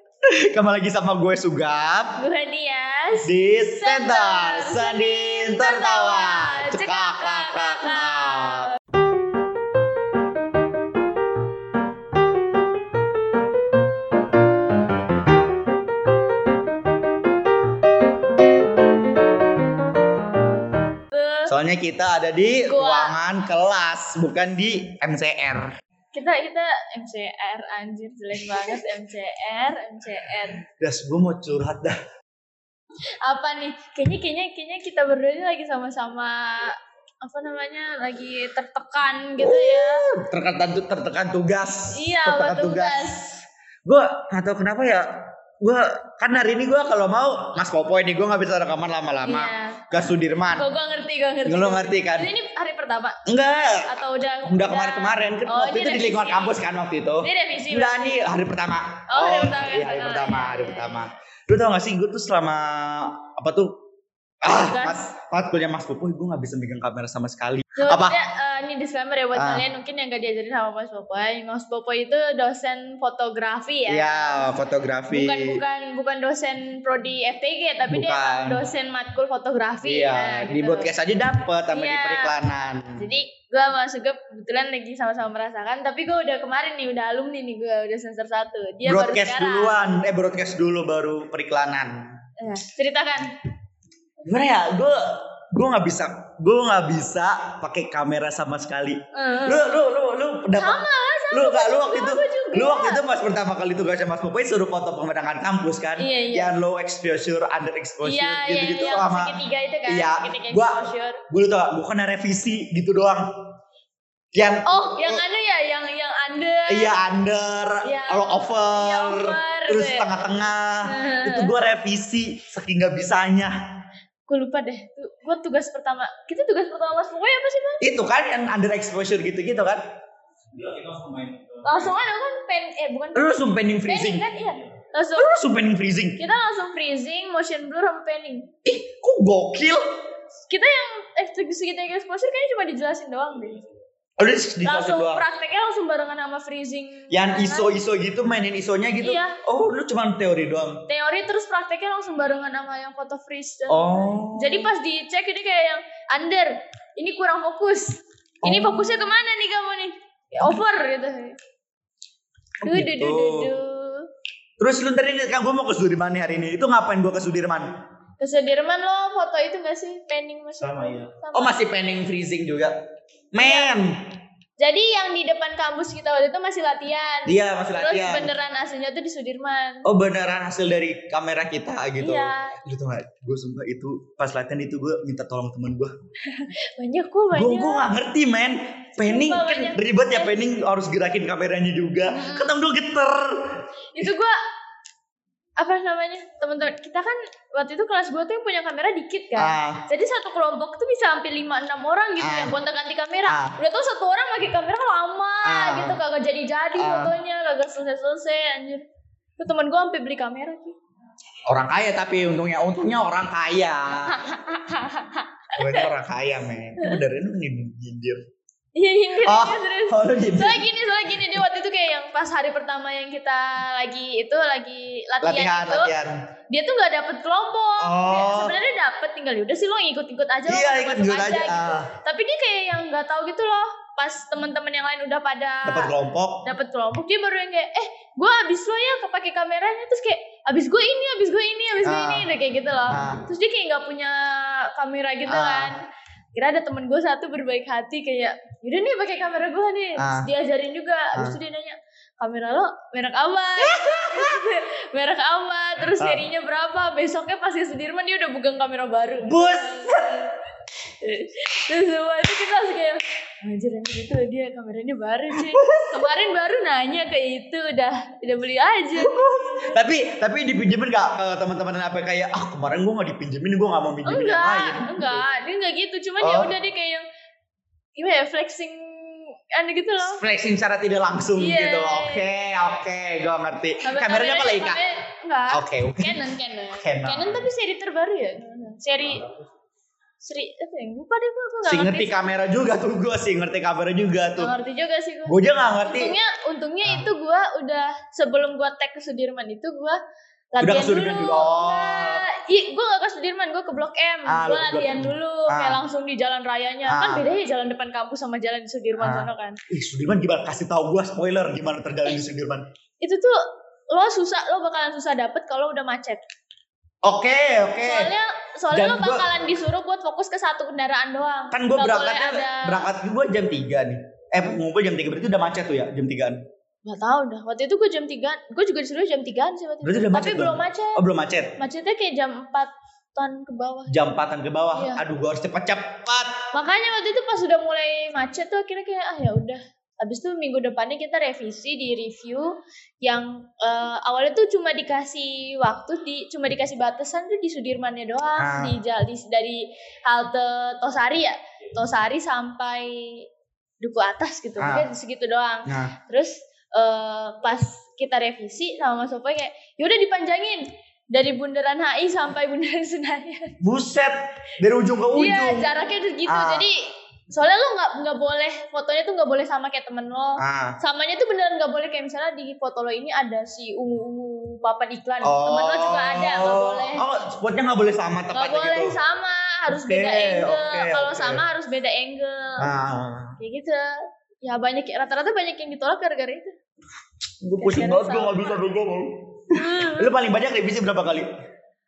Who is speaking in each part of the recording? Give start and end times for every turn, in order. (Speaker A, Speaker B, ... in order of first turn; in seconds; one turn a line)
Speaker A: 0.2-2.2
Speaker B: 2.2-8.8
Speaker A: 3.2-8.7
Speaker B: 21.1-21.5
Speaker A: 21.5-25.7
Speaker B: 22.7-23.1
Speaker B: 26.1-30.6
Speaker A: 30.7-32.0
Speaker B: 33.2-40.1
Speaker A: 39.4-43.1
Speaker B: 41.9-43.4
Speaker A: 43.8-50.7
Speaker B: 49.2-49.9
Speaker B: 50.5-56.6
Speaker A: 51.5-52.3
Speaker A: 53.3-53.9
Speaker A: 54.5-63.8
Speaker B: 57.2-58.3
Speaker B: 59.1-61.0
Speaker A: 64.4-68.2
Speaker B: 64.5-65.1
Speaker B: 67.8-74.5
Speaker A: 69.3-69.7
Speaker A: 73.9-75.6
Speaker B: 75.1-80.9
Speaker A: 77.9-78.6
Speaker A: 79.8-83.1
Speaker B: 81.7-82.4
Speaker B: 83.0-89.8
Speaker A: 88.9-92.1
Speaker B: 92.4-93.3
Speaker A: 94.2-109.4
Speaker B: 99.1-99.8
Speaker B: 100.6-103.0
Speaker B: 106.0-106.5
Speaker B: 108.0-111.2
Speaker A: 109.9-113.3
Speaker A: 114.3-115.2
Speaker B: 114.7-117.0
Speaker A: 116.7-123.5
Speaker B: 117.8-121.5
Speaker B: 124.3-127.8
Speaker A: 127.8-129.8
Speaker A: 130.5-131.8
Speaker B: 131.6-135.4
Speaker A: 133.1-134.3
Speaker A: 135.2-136.2
Speaker B: 136.2-138.5
Speaker A: 138.6-140.0
Speaker B: 140.5-143.6
Speaker A: 144.2-145.3
Speaker B: 144.6-147.8
Speaker A: 147.1-150.8
Speaker B: 149.0-149.4
Speaker B: 150.9-161.3
Speaker A: 153.7-154.7
Speaker A: 158.4-158.9
Speaker A: 162.6-163.5
Speaker B: 162.6-164.1
Speaker A: 164.6-167.7
Speaker B: 168.2-171.6
Speaker A: 170.6-172.8
Speaker A: 173.3-174.0
Speaker B: 173.4-173.8
Speaker B: 174.6-179.9
Speaker A: 177.2-178.3
Speaker A: 179.8-185.9
Speaker B: 182.0-182.6
Speaker B: 186.2-187.9
Speaker A: 187.3-194.1
Speaker B: 189.0-190.3
Speaker B: 192.1-192.5
Speaker B: 193.9-194.4
Speaker B: 195.6-208.8
Speaker A: 199.3-199.8
Speaker A: 202.2-202.5
Speaker A: 203.2-203.6
Speaker A: 205.4-206.0
Speaker A: 206.8-207.1
Speaker B: 209.4-210.7
Speaker A: 211.5-214.2
Speaker B: 214.1-215.9
Speaker A: 215.6-218.2
Speaker B: 218.8-225.9
Speaker A: 219.2-220.7
Speaker A: 225.2-226.2
Speaker B: 226.5-235.9
Speaker A: 227.8-228.6
Speaker A: 230.5-231.9
Speaker A: 235.6-236.4
Speaker B: 236.4-245.8
Speaker A: 241.8-242.3
Speaker A: 242.9-243.2
Speaker A: 245.2-245.7
Speaker B: 246.3-260.3
Speaker A: 250.0-250.3
Speaker A: 253.6-254.4
Speaker A: 256.0-256.2
Speaker A: 259.2-260.3
Speaker B: 260.9-269.8
Speaker A: 265.3-266.1
Speaker A: 269.0-275.2
Speaker B: 274.1-277.1
Speaker A: 276.2-276.5
Speaker B: 278.0-280.2
Speaker A: 280.0-284.8
Speaker B: 281.4-282.2
Speaker B: 283.8-289.3
Speaker A: 285.5-286.2
Speaker A: 286.8-287.5
Speaker B: 290.2-292.1
Speaker A: 291.7-294.5
Speaker B: 294.4-300.0
Speaker A: 295.3-296.2
Speaker B: 300.5-309.6
Speaker A: 300.6-302.2
Speaker A: 304.2-305.8
Speaker A: 306.9-307.3
Speaker A: 309.0-312.7
Speaker B: 313.0-316.2
Speaker A: 317.0-318.1
Speaker B: 317.8-322.9
Speaker A: 318.7-319.3
Speaker A: 321.5-326.4
Speaker B: 326.9-331.0
Speaker A: 329.8-331.6
Speaker B: 331.6-333.9
Speaker A: 333.9-336.4
Speaker B: 334.7-335.0
Speaker B: 336.5-342.5
Speaker B: 343.0-353.2
Speaker A: 348.4-348.8
Speaker B: 353.8-363.5
Speaker A: 354.6-354.9
Speaker A: 355.7-355.9
Speaker A: 363.6-365.7
Speaker B: 365.1-366.8
Speaker A: 366.3-366.7
Speaker B: 367.3-377.1
Speaker A: 370.4-370.8
Speaker A: 375.2-379.0
Speaker B: 378.4-382.7
Speaker A: 379.7-381.4
Speaker A: 382.6-383.4
Speaker B: 383.4-386.5
Speaker A: 387.4-391.3
Speaker B: 387.6-388.6
Speaker B: 389.5-390.1